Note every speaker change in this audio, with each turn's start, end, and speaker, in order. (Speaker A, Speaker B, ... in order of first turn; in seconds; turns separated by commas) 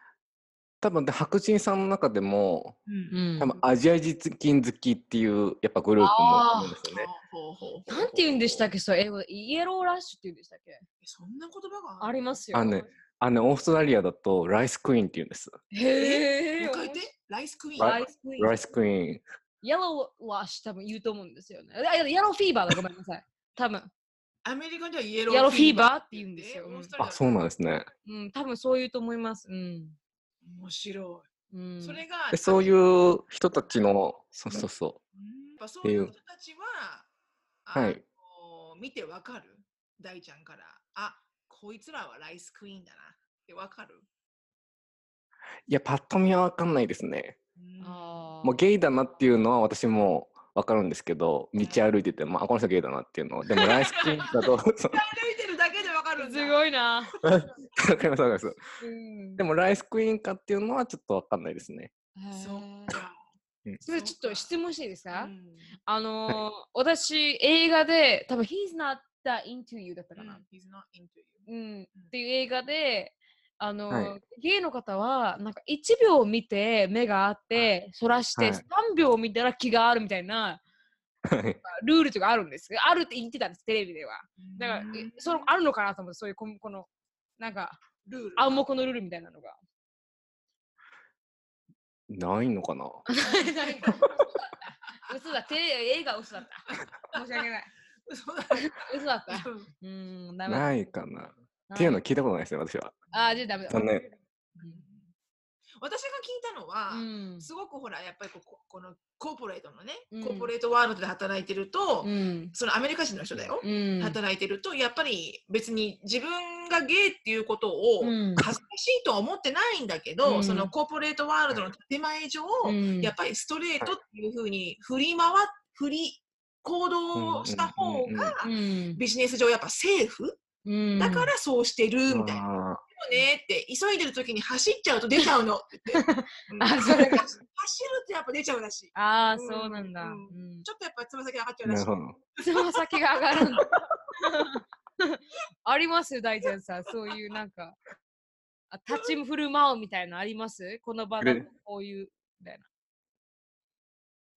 Speaker A: 0.8-2.8, Speaker B: 2.9-3.2, Speaker C: 3.1-3.5, Speaker A: 3.4-7.1, Speaker C: 6.0-6.8, Speaker B: 6.9-7.9, Speaker C: 7.9-10.8, Speaker A: 7.9-8.7, Speaker B: 11.0-12.3, Speaker C: 12.0-12.9, Speaker A: 12.5-15.6, Speaker C: 15.7-17.1, Speaker B: 15.9-18.1, Speaker A: 17.8-19.2, Speaker C: 17.8-18.5, Speaker C: 19.6-23.9, Speaker B: 24.4-27.4, Speaker C: 25.3-26.9, Speaker A: 27.0-27.9, Speaker C: 28.0-30.0, Speaker B: 30.4-31.3, Speaker C: 31.5-32.0, Speaker B: 31.8-32.8, Speaker A: 32.3-35.0, Speaker B: 35.1-37.1, Speaker A: 35.8-36.1, Speaker B: 37.6-44.0, Speaker A: 37.7-38.0, Speaker A: 45.7-47.4, Speaker B: 47.5-48.3, Speaker C: 47.8-48.6, Speaker A: 48.4-55.0, Speaker C: 53.5-54.3, Speaker B: 54.9-56.6, Speaker C: 56.2-57.1, Speaker A: 57.2-58.6, Speaker C: 58.8-59.4, Speaker A: 59.4-61.9, Speaker C: 62.1-63.0, Speaker B: 62.3-63.2, Speaker C: 63.8-65.3, Speaker B: 63.9-64.5, Speaker B: 65.1-65.8, Speaker C: 65.8-70.4, Speaker B: 70.2-72.1, Speaker C: 71.5-80.6, Speaker A: 73.9-74.2, Speaker A: 78.3-78.6, Speaker A: 81.3-81.6, Speaker C: 81.6-86.9, Speaker B: 84.4-85.5, Speaker C: 87.4-87.8, Speaker B: 88.0-88.7, Speaker C: 88.3-89.6, Speaker A: 92.1-93.0, Speaker C: 93.1-97.7, Speaker B: 93.2-94.0, Speaker B: 96.7-97.5, Speaker B: 98.0-99.7, Speaker C: 98.5-100.7, Speaker A: 100.5-103.0, Speaker C: 101.7-102.0, Speaker B: 103.1-103.4, Speaker C: 103.1-103.8, Speaker A: 103.7-104.0, Speaker B: 104.5-105.1, Speaker B: 105.8-130.4, Speaker C: 106.9-107.5, Speaker C: 110.1-110.5, Speaker C: 112.0-112.5, Speaker C: 113.6-114.2, Speaker C: 118.0-118.5, Speaker C: 120.2-120.7, Speaker C: 122.6-123.1, Speaker A: 127.1-128.3, Speaker C: 128.4-129.0, Speaker C: 130.6-131.3, Speaker B: 131.0-142.8, Speaker A: 132.1-132.8, Speaker C: 135.9-137.3, Speaker C: 138.9-140.7, Speaker A: 141.6-142.2, Speaker C: 142.4-147.8, Speaker B: 143.3-143.8, Speaker C: 148.7-152.6